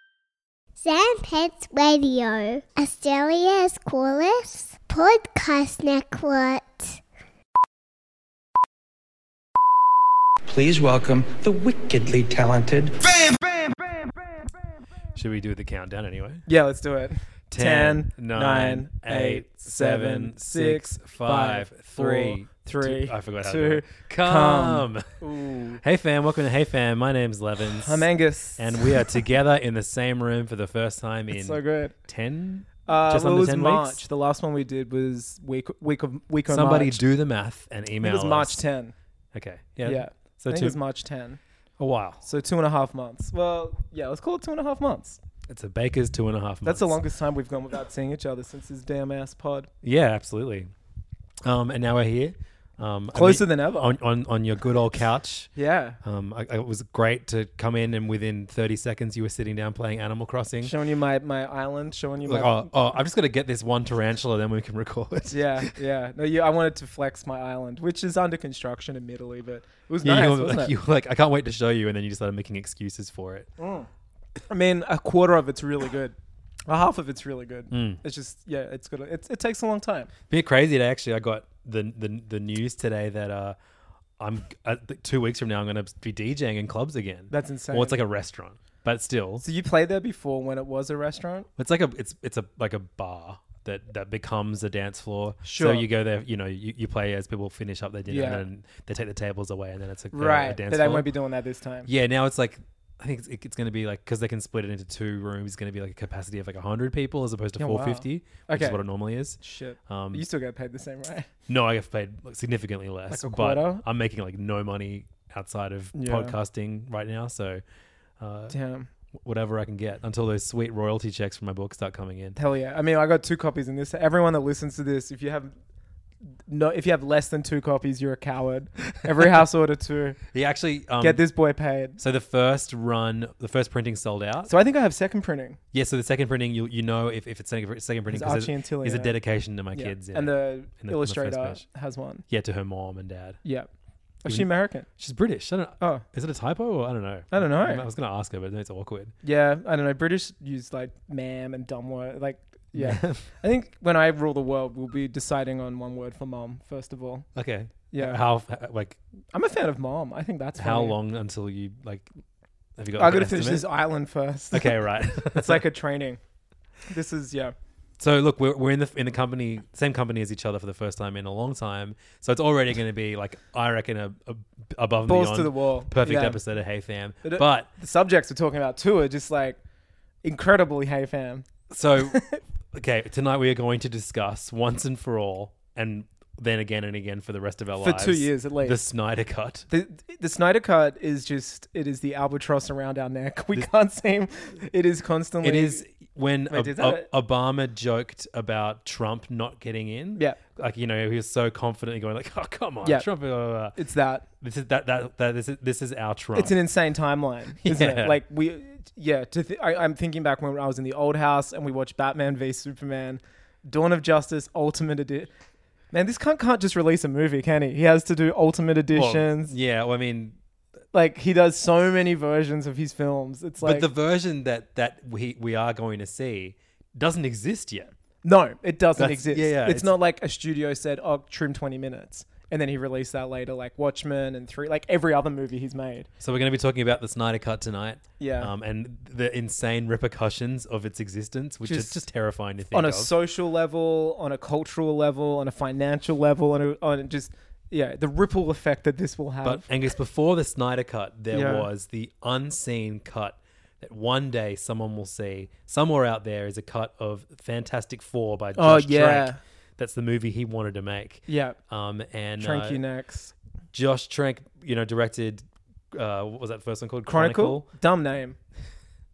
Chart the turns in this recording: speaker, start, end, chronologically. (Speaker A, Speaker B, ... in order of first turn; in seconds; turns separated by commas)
Speaker A: 0.8-7.0, Speaker B: 10.5-13.5, Speaker C: 15.2-16.4, Speaker D: 16.5-25.8, Speaker C: 17.5-25.1, Speaker C: 25.8-28.1, Speaker D: 27.8-29.2, Speaker C: 28.6-34.0, Speaker D: 31.3-31.9, Speaker D: 32.9-37.0, Speaker C: 36.5-38.6, Speaker D: 38.0-38.9, Speaker C: 39.3-40.8, Speaker D: 39.8-41.4, Speaker C: 41.8-42.2, Speaker D: 42.2-45.2, Speaker C: 45.5-47.0, Speaker D: 46.6-49.7, Speaker C: 49.8-50.7, Speaker C: 51.4-55.5, Speaker D: 53.1-53.9, Speaker D: 55.6-56.0, Speaker C: 56.0-60.7, Speaker D: 60.6-62.7, Speaker C: 62.3-65.7, Speaker D: 65.3-70.7, Speaker C: 70.0-73.5, Speaker D: 73.6-73.9, Speaker D: 74.5-76.2, Speaker D: 76.7-80.1, Speaker C: 77.7-78.0, Speaker C: 80.3-83.6, Speaker C: 84.2-89.4, Speaker D: 87.3-88.0, Speaker D: 89.4-91.5, Speaker C: 91.6-101.1, Speaker D: 95.4-95.9, Speaker D: 98.1-98.4, Speaker D: 100.1-101.9, Speaker C: 101.9-110.2, Speaker D: 107.6-108.8, Speaker D: 109.4-111.3, Speaker C: 111.5-117.6, Speaker D: 113.1-113.8, Speaker D: 116.0-116.3, Speaker C: 118.2-118.6, Speaker D: 118.5-118.9, Speaker C: 119.2-122.4, Speaker D: 122.4-125.5, Speaker D: 126.5-130.2, Speaker C: 130.3-131.2, Speaker D: 131.0-132.0, Speaker C: 132.0-134.5, Speaker D: 134.5-135.6, Speaker C: 135.7-141.7, Speaker D: 138.1-139.2, Speaker D: 139.8-142.2, Speaker C: 142.3-143.4, Speaker D: 143.4-143.7, Speaker D: 144.2-144.9, Speaker C: 144.3-149.2, Speaker D: 145.8-146.1, Speaker D: 147.3-147.8, Speaker D: 149.2-157.3, Speaker C: 152.8-153.3, Speaker C: 157.4-159.0, Speaker D: 157.9-158.2, Speaker D: 159.3-161.0, Speaker C: 160.6-162.1, Speaker C: 162.8-163.7, Speaker D: 163.0-166.2, Speaker C: 164.5-165.6, Speaker D: 166.9-167.5, Speaker C: 168.0-177.7, Speaker D: 175.1-176.4, Speaker D: 177.2-179.6, Speaker D: 180.2-181.5, Speaker C: 181.7-189.7, Speaker D: 182.1-182.4, Speaker D: 187.8-188.8, Speaker D: 189.7-195.8, Speaker C: 195.4-203.8, Speaker D: 196.5-197.1, Speaker D: 203.7-204.2, Speaker C: 204.4-206.6, Speaker D: 206.3-215.3, Speaker C: 207.6-208.2, Speaker D: 215.9-219.5, Speaker C: 218.9-220.4, Speaker D: 220.9-223.9, Speaker C: 223.6-227.9, Speaker D: 228.2-236.1, Speaker C: 229.0-229.9, Speaker C: 236.2-243.1, Speaker D: 238.2-238.5, Speaker D: 241.7-242.0, Speaker D: 242.7-249.7, Speaker C: 249.4-262.8, Speaker D: 251.3-251.7, Speaker D: 258.6-259.4, Speaker D: 261.3-261.6, Speaker D: 262.4-263.3, Speaker C: 263.7-267.7, Speaker D: 267.1-268.4